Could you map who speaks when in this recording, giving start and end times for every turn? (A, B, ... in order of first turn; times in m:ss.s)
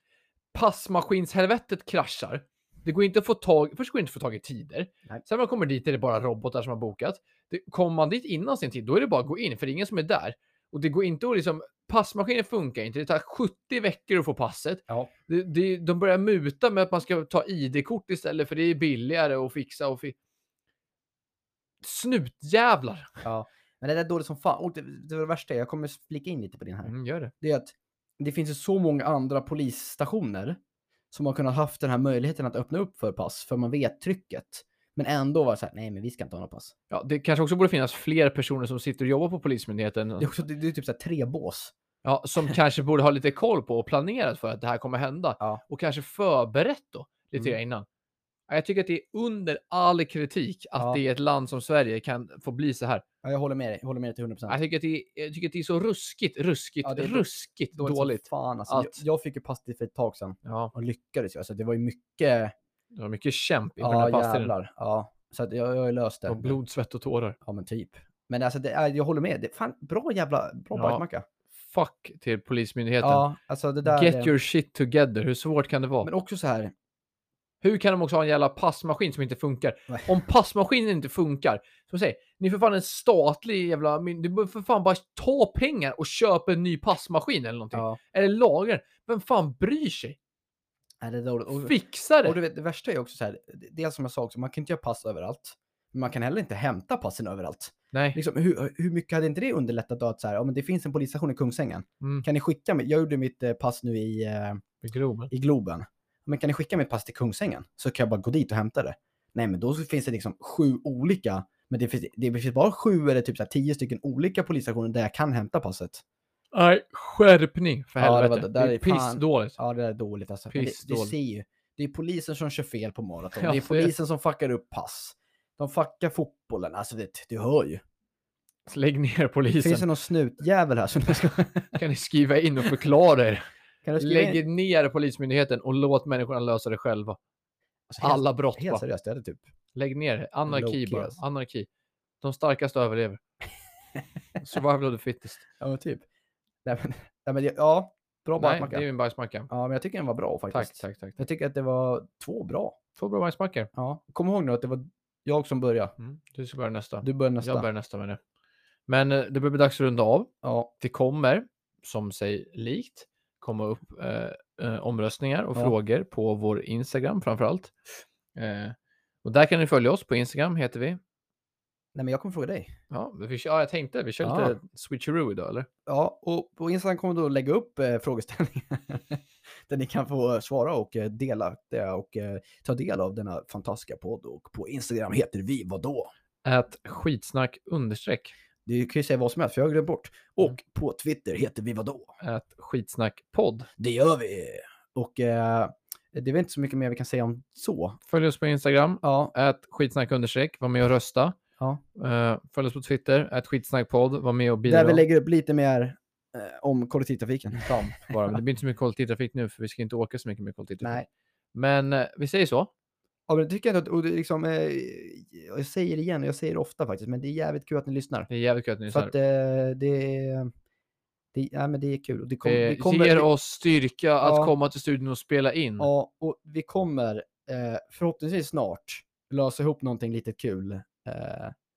0:00.5-0:20.2 A
0:21.8-0:23.2 A
0:23.2-0:30.6 B
0:26.9-0:27.3 A
0:31.1-0:36.7 B
0:36.9-0:40.3 A
0:40.2-0:41.7 B
0:42.0-0:47.9 A
0:48.5-0:53.0 A
0:53.2-0:54.6 B
0:54.5-0:59.0 A
0:56.8-1:02.5 B
1:00.4-1:00.7 A
1:02.9-1:04.5 A
1:03.8-1:06.6 B
1:06.3-1:07.4 A
1:07.4-1:11.2 B
1:10.7-1:11.0 A
1:11.7-1:13.3 A
1:13.0-1:14.3 B
1:13.8-1:16.1 A
1:16.0-1:16.7 B
1:17.6-1:30.2 A
1:27.7-1:28.0 B
1:31.0-1:44.6 B
1:31.5-1:32.4 A
1:37.9-1:38.2 A
1:44.8-1:45.3 A
1:45.3-1:56.0 B
1:56.5-1:59.6 A
1:58.0-2:07.8 B
2:00.5-2:01.2 A
2:03.4-2:03.9 A
2:08.7-2:09.9 A
2:09.6-2:11.8 B
2:11.7-2:13.5 A
2:13.8-2:14.4 B
2:14.0-2:17.2 A
2:17.9-2:19.4 B
2:18.0-2:18.8 A
2:19.8-2:21.7 A
2:20.5-2:21.2 B
2:22.2-2:23.2 A
2:24.4-2:25.5 A
2:25.6-2:26.0 B
2:26.6-2:28.8 B
2:28.4-2:29.5 A
2:29.5-2:32.8 B
2:30.5-2:31.2 A
2:33.0-2:33.7 A
2:33.8-2:35.9 B
2:36.0-2:38.2 A
2:37.0-2:37.7 B
2:38.9-2:47.7 A
2:40.4-2:40.7 B
2:48.4-2:51.0 A
2:52.0-2:52.7 B
2:52.9-2:55.7 A
2:54.2-2:54.6 B
2:55.9-3:06.1 B
3:06.4-3:08.3 A
3:08.7-3:12.1 B
3:12.2-3:13.7 A
3:13.8-3:18.0 B
3:18.1-3:21.4 A
3:19.0-3:19.3 B
3:22.0-3:25.0 A
3:24.7-3:27.8 B
3:27.6-3:32.7 A
3:33.3-3:38.3 B
3:38.3-3:39.1 A
3:38.9-3:40.5 B
3:41.3-3:43.3 B
3:42.4-3:45.9 A
3:44.2-3:44.5 B
3:45.8-3:51.5 B